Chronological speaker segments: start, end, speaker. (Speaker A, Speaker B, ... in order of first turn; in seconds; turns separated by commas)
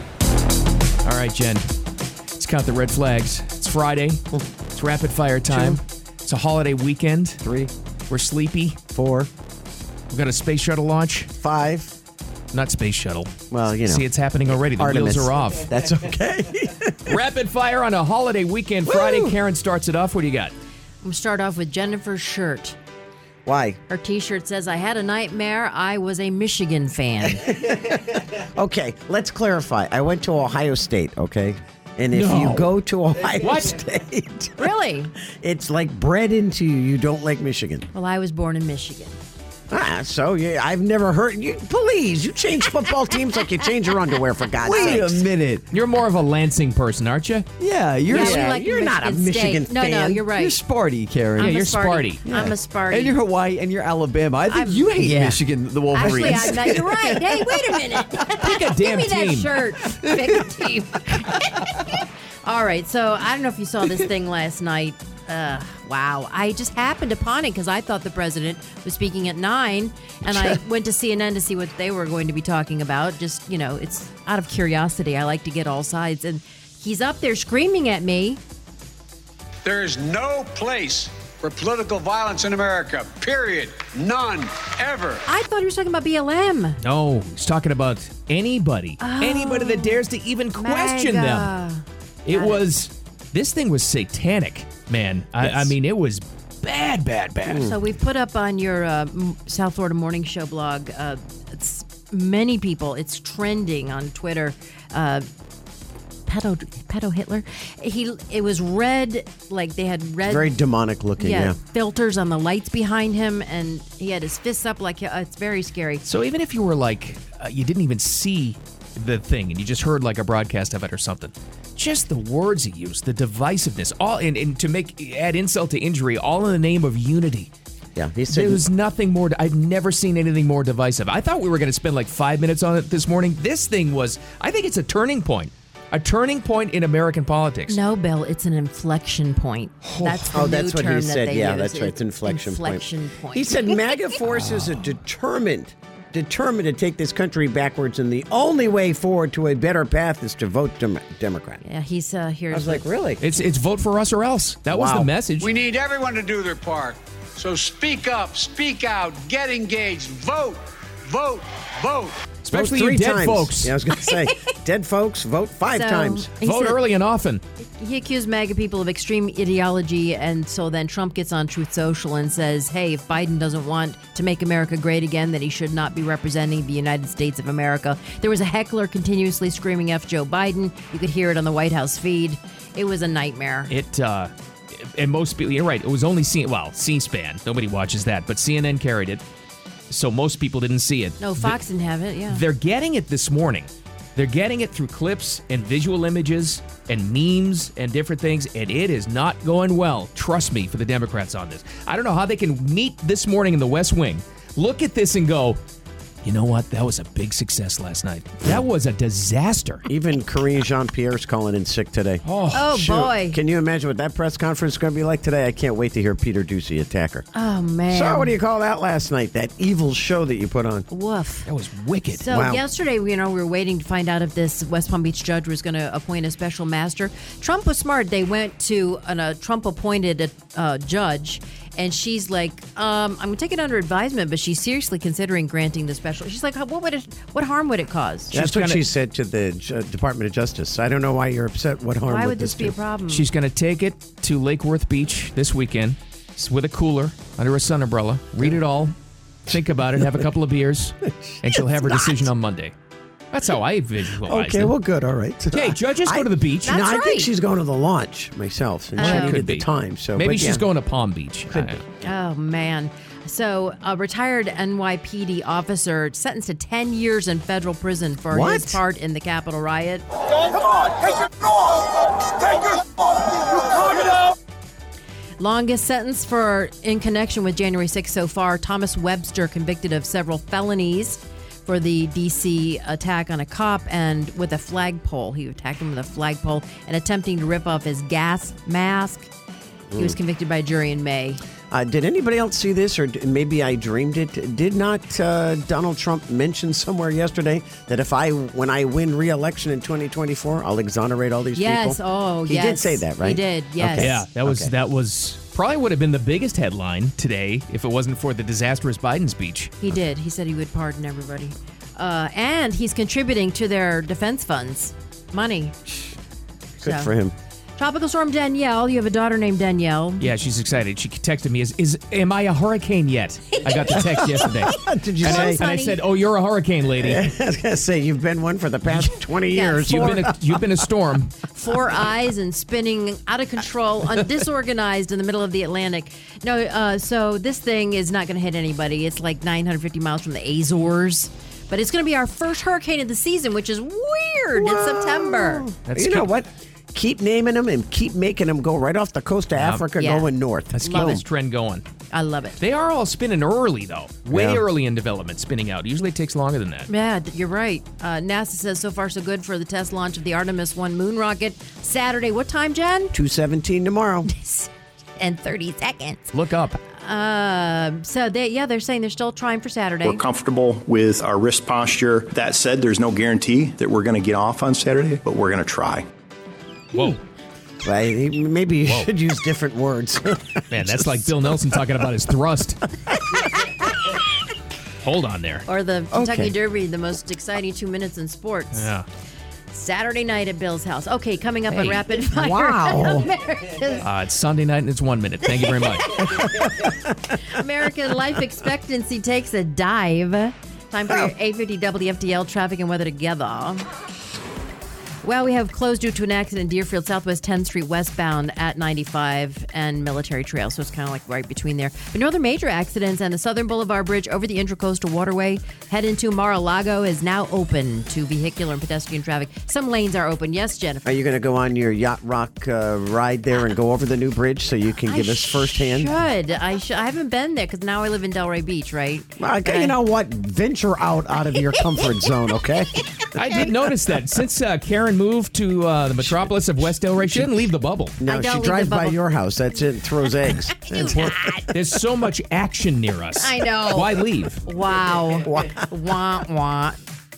Speaker A: 1.0-1.7, Speaker A: 2.4-4.2, Speaker A: 4.7-7.4, Speaker B: 5.5-5.8, Speaker B: 7.4-7.7, Speaker A: 8.1-8.8, Speaker B: 8.9-9.3, Speaker A: 10.1-11.3, Speaker B: 11.4-11.9, Speaker A: 12.5-15.7, Speaker B: 13.5-14.0, Speaker B: 14.6-17.2, Speaker A: 17.1-20.5, Speaker B: 18.9-19.4, Speaker C: 21.0-22.8, Speaker B: 23.4-23.8, Speaker C: 23.9-27.5, Speaker B: 27.2-34.7, Speaker A: 32.1-32.7, Speaker A: 33.4-33.8, Speaker C: 34.6-35.1, Speaker B: 35.4-37.9, Speaker C: 37.9-39.2, Speaker B: 39.7-45.2, Speaker D: 44.6-45.6, Speaker A: 45.7-47.5, Speaker D: 47.6-48.4, Speaker B: 48.1-50.3, Speaker C: 48.1-50.6, Speaker D: 50.3-51.6, Speaker C: 51.4-53.2, Speaker A: 51.4-52.2, Speaker D: 52.2-58.3, Speaker C: 54.5-55.1, Speaker B: 55.0-55.4, Speaker A: 55.0-55.4, Speaker C: 55.9-78.4, Speaker A: 56.0-56.4, Speaker A: 58.4-59.6, Speaker D: 59.9-60.2, Speaker E: 79.6-85.2, Speaker C: 85.2-86.8, Speaker A: 86.8-91.5, Speaker C: 89.0-90.0, Speaker C: 90.5-92.6, Speaker A: 92.2-97.7, Speaker B: 95.4-95.7, Speaker B: 97.5-97.8, Speaker C: 97.5-105.2, Speaker C: 106.3-110.5, Speaker B: 110.2-111.6, Speaker C: 111.2-116.0, Speaker A: 116.0-127.5, Speaker B: 127.9-128.6, Speaker A: 128.3-137.8, Speaker C: 137.7-143.8, Speaker A: 139.8-140.3, Speaker B: 140.2-151.6, Speaker A: 144.4-144.8, Speaker C: 151.6-152.8, Speaker B: 152.5-153.2, Speaker A: 153.2-155.5, Speaker B: 154.7-155.1, Speaker E: 155.4-162.2, Speaker A: 162.4-163.7, Speaker B: 162.5-166.3, Speaker C: 164.0-164.3, Speaker C: 165.7-166.8, Speaker A: 166.4-167.4, Speaker C: 167.6-183.7, Speaker A: 183.7-189.2, Speaker A: 189.9-191.6, Speaker C: 191.2-192.4, Speaker A: 192.3-205.6, Speaker A: 206.2-209.8, Speaker B: 209.9-217.2, Speaker A: 212.2-212.8, Speaker C: 212.5-213.4, Speaker C: 217.3-218.3, Speaker B: 217.9-220.9, Speaker C: 220.9-221.5, Speaker A: 221.4-222.2, Speaker C: 222.2-238.3, Speaker B: 222.3-222.6, Speaker A: 238.3-238.8, Speaker B: 238.3-242.7, Speaker C: 242.1-243.2, Speaker A: 243.1-248.9, Speaker A: 249.5-252.7, Speaker B: 249.5-250.2, Speaker B: 251.4-252.3, Speaker A: 253.3-254.8, Speaker B: 254.2-260.6, Speaker A: 255.5-256.8, Speaker C: 256.6-257.3, Speaker C: 259.0-259.4, Speaker A: 259.0-261.8, Speaker B: 261.5-261.9, Speaker C: 262.0-270.0, Speaker B: 268.3-268.8, Speaker C: 275.4-289.3, Speaker B: 289.9-290.1, Speaker C: 289.9-291.4, Speaker B: 291.7-304.7, Speaker C: 301.5-304.2, Speaker A: 303.9-309.7, Speaker C: 309.8-315.8, Speaker B: 316.8-317.3, Speaker C: 316.8-317.1, Speaker C: 317.8-320.3, Speaker A: 320.2-327.2, Speaker C: 323.6-326.0, Speaker B: 324.0-325.6, Speaker B: 327.0-330.6, Speaker C: 329.5-330.3, Speaker A: 329.9-331.4, Speaker C: 331.5-345.7, Speaker B: 344.5-351.2, Speaker A: 345.8-346.3, Speaker A: 349.6-349.9, Speaker C: 350.0-350.3, Speaker A: 350.8-351.8, Speaker C: 350.8-351.2, Speaker C: 352.1-352.6, Speaker A: 352.6-356.9, Speaker B: 354.3-354.6, Speaker C: 356.9-363.1, Speaker B: 363.1-364.3, Speaker C: 364.2-366.3, Speaker A: 366.3-366.8, Speaker C: 366.9-370.2, Speaker F: 370.0-376.1, Speaker A: 376.9-377.2, Speaker B: 377.8-381.2, Speaker A: 380.7-382.8, Speaker A: 385.0-385.6, Speaker C: 385.6-388.9, Speaker B: 386.1-386.5, Speaker A: 388.7-389.1, Speaker C: 389.7-394.1, Speaker A: 391.7-392.1, Speaker B: 392.3-393.3, Speaker A: 394.0-396.2, Speaker C: 395.4-403.9, Speaker B: 396.3-397.3, Speaker C: 405.2-421.1, Speaker B: 421.0-426.1, Speaker C: 425.1-429.9, Speaker B: 429.4-433.0, Speaker A: 433.3-438.2, Speaker B: 436.2-437.6, Speaker B: 438.2-441.6, Speaker C: 438.2-439.2, Speaker C: 440.5-441.7, Speaker A: 441.7-444.6, Speaker C: 443.4-447.0, Speaker B: 445.4-445.9